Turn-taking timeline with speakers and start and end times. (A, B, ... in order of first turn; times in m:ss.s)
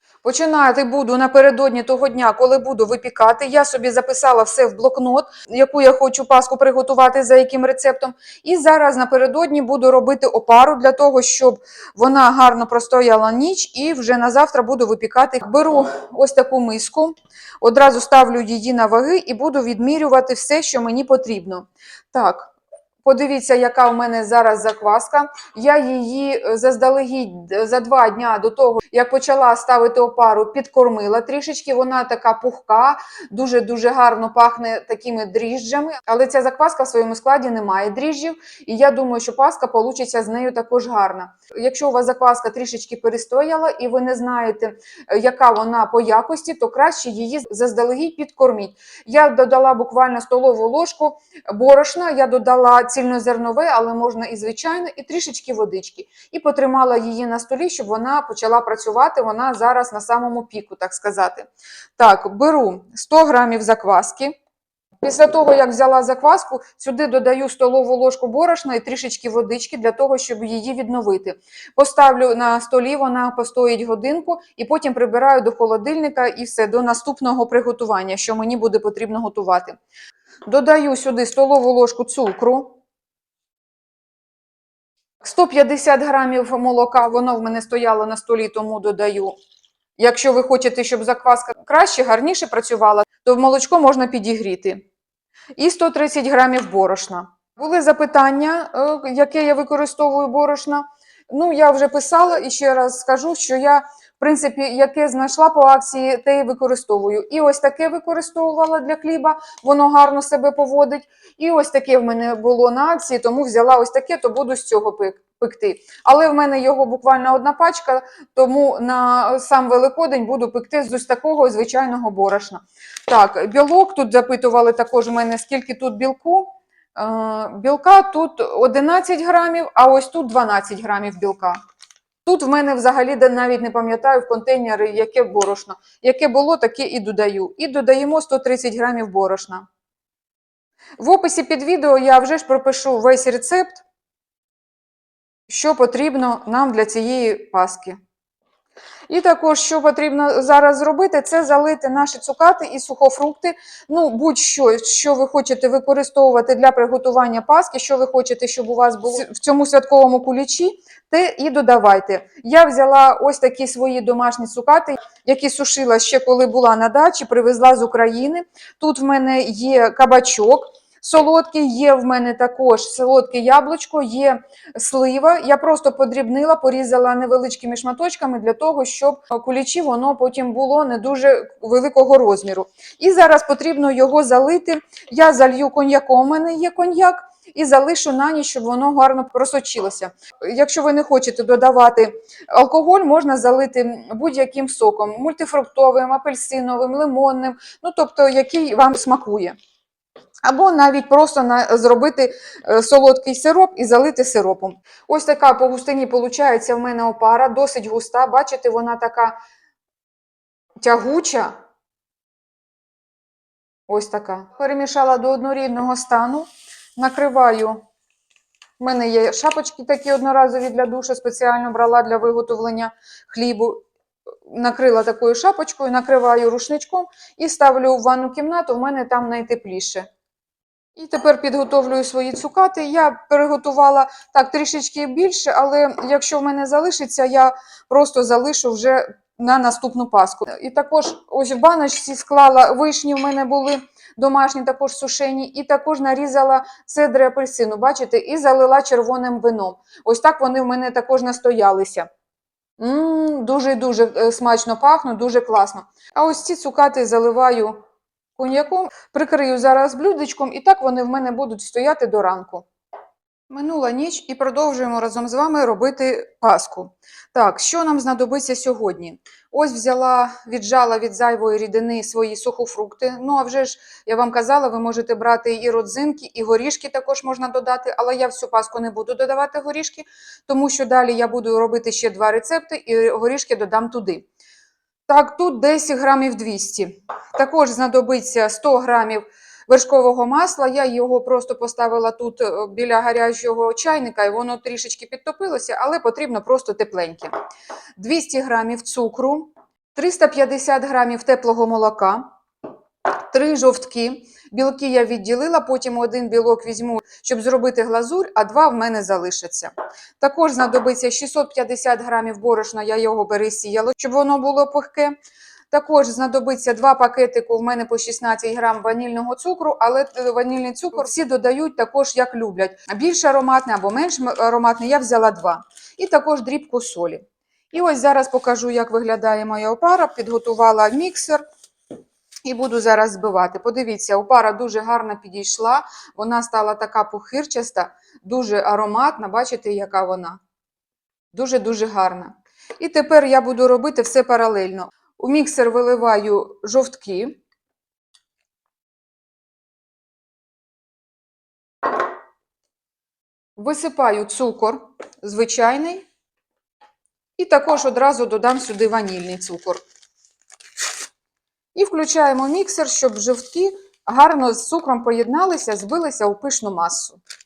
0:00.2-0:22.5 A
0:23.0-1:04.4 A
1:05.0-1:19.8 A
1:20.5-1:22.8 A
1:25.2-1:29.4 A
1:30.0-1:34.9 A
1:35.6-2:11.6 A
2:12.2-2:19.7 A
2:21.0-2:23.8 A
2:25.5-2:28.0 A
2:29.1-3:19.6 A
3:20.4-3:29.4 A
3:30.8-3:31.5 A
3:33.9-3:37.8 A
3:38.8-3:43.8 A
3:44.5-3:50.1 A
3:51.0-4:12.1 A
4:12.8-4:17.8 A
4:18.4-4:22.7 A
4:23.5-4:44.3 A
4:45.1-4:57.3 A
4:58.0-5:02.3 A
5:03.3-5:15.2 A
5:15.7-5:31.4 A
5:32.5-5:40.4 A
5:41.3-5:47.4 A
5:53.6-5:56.1 A
5:57.4-5:59.8 A
6:01.8-6:07.2 A